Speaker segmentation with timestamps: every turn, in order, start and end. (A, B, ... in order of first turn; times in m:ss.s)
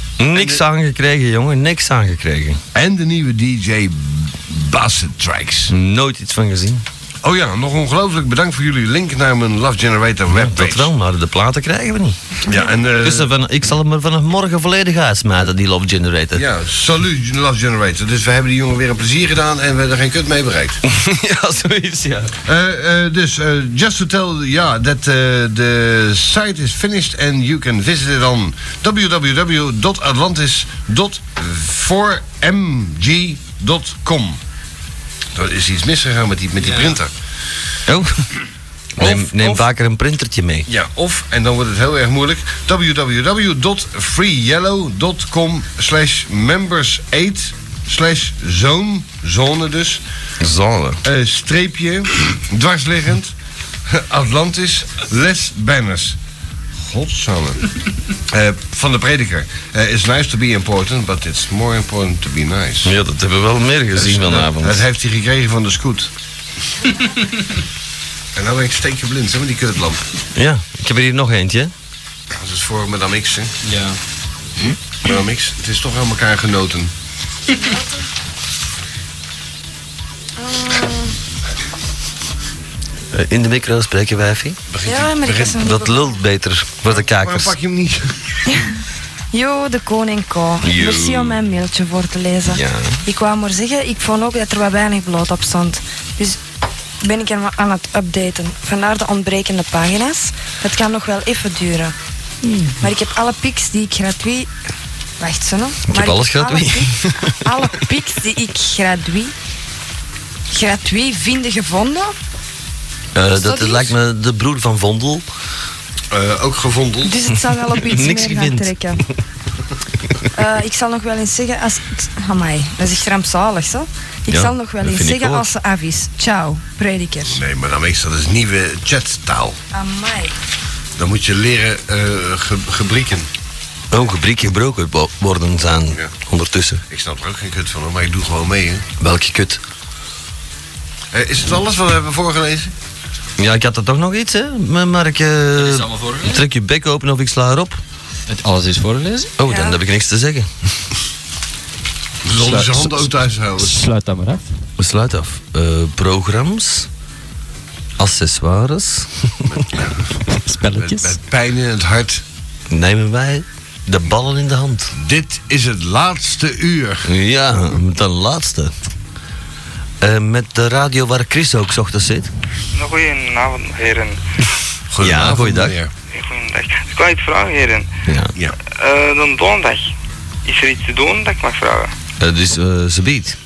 0:00.2-0:02.6 A
0:00.3-0:00.6 B
0:02.7-0:05.7 B
0:05.7-0:06.8 A
0:07.2-0:10.9 B
0:10.3-0:12.5 A
0:12.4-0:13.3 B
0:13.0-0:16.4 A
0:16.3-0:20.8 B
0:20.8-0:22.4 A
0:22.5-0:34.4 B
0:35.4-0:37.1 B
0:36.6-0:37.0 C
0:37.9-0:38.4 A
0:39.0-0:40.7 A
0:39.0-0:39.7 B
0:40.7-0:50.0 B
0:50.4-0:51.0 A
0:51.0-0:53.3 B
0:53.9-0:56.2 B
0:56.8-0:57.6 B
0:58.3-1:02.9 B
1:02.8-1:04.9 A
1:04.0-1:06.1 B
1:08.4-1:10.0 B
1:10.4-1:11.7 A
1:12.3-1:13.5 B
1:13.6-1:14.0 C
1:15.0-1:16.9 B
1:20.4-1:21.0 D
1:23.1-1:24.6 A
1:24.7-1:25.7 B
1:24.9-1:26.0 D
1:25.6-1:27.6 A
1:26.9-1:28.7 B
1:29.3-1:36.4 D
1:30.6-1:31.4 A
1:32.5-1:33.0 A
1:37.0-1:41.9 D
1:42.4-1:42.9 A
1:42.8-1:44.5 D
1:45.2-1:46.9 D
1:45.9-1:47.3 A
1:47.4-1:49.3 D
1:50.5-1:52.1 D
1:53.2-1:55.3 A
1:53.4-1:53.8 D
1:56.1-1:57.3 B
1:57.1-1:59.0 D
1:57.7-1:59.0 A
2:00.4-2:07.3 D
2:04.3-2:05.5 A
2:07.2-2:09.6 B
2:09.7-2:10.3 D
2:11.0-2:13.3 B
2:13.9-2:16.8 A
2:16.9-2:18.8 B
2:19.0-2:19.6 A
2:21.1-2:22.7 B
2:23.4-2:27.8 A
2:25.6-2:26.4 C
2:28.3-2:29.4 C
2:29.4-2:30.5 A
2:32.2-2:33.8 B
2:32.4-2:34.5 C
2:34.8-2:36.9 A
2:38.0-2:39.6 A
2:40.3-2:41.2 C
2:40.8-2:42.2 B
2:42.7-2:44.9 A
2:45.0-2:47.1 B
2:47.0-2:48.7 A
2:50.0-2:52.3 A
2:52.7-2:54.2 E
2:54.9-2:55.9 B
2:55.0-2:55.8 A
2:56.1-2:57.9 E
2:58.1-2:58.3 A
2:58.6-2:59.9 E
3:00.4-3:01.9 E
3:02.2-3:03.4 A